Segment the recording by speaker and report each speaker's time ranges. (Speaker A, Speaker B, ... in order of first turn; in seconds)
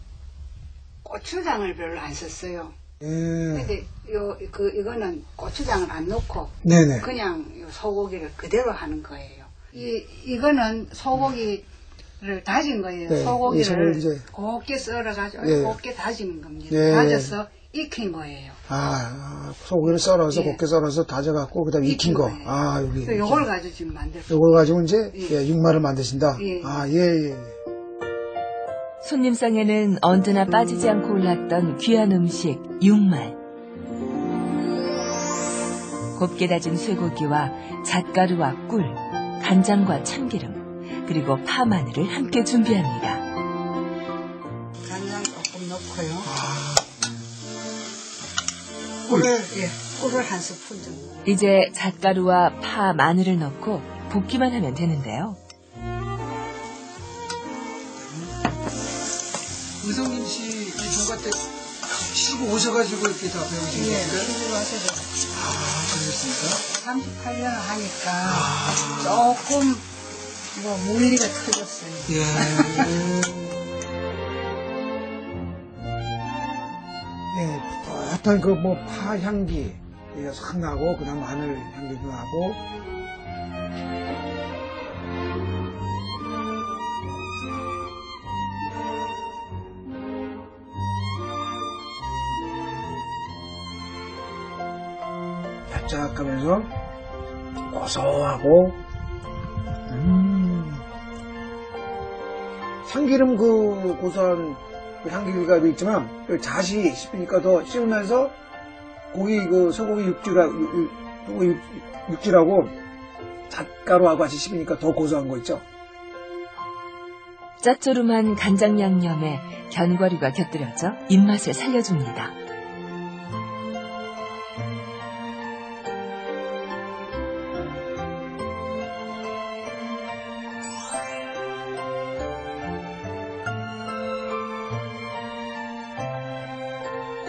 Speaker A: 1.0-2.8, 3.5-11.7, 12.2-18.6, 20.2-20.6, 21.8-24.4, 25.1-25.4, 26.4-26.9, 44.8-46.3, 49.1-51.3, 63.7-65.1, 66.6-69.9, 70.5-73.0
Speaker B: 3.0-3.7, 6.6-7.1, 13.1-14.2, 15.4-15.8, 16.7-17.4, 18.7-23.5, 24.3-27.6, 46.2-46.9, 59.8-64.3, 65.3-66.7, 68.2-69.3, 72.1-73.5, 77.3-82.6, 95.7-96.7, 97.7-98.8, 99.9-100.8, 102.8-108.3, 109.1-112.8, 113.5-115.6
Speaker C: 29.0-33.4, 36.1-43.2, 51.2-55.4, 117.6-122.4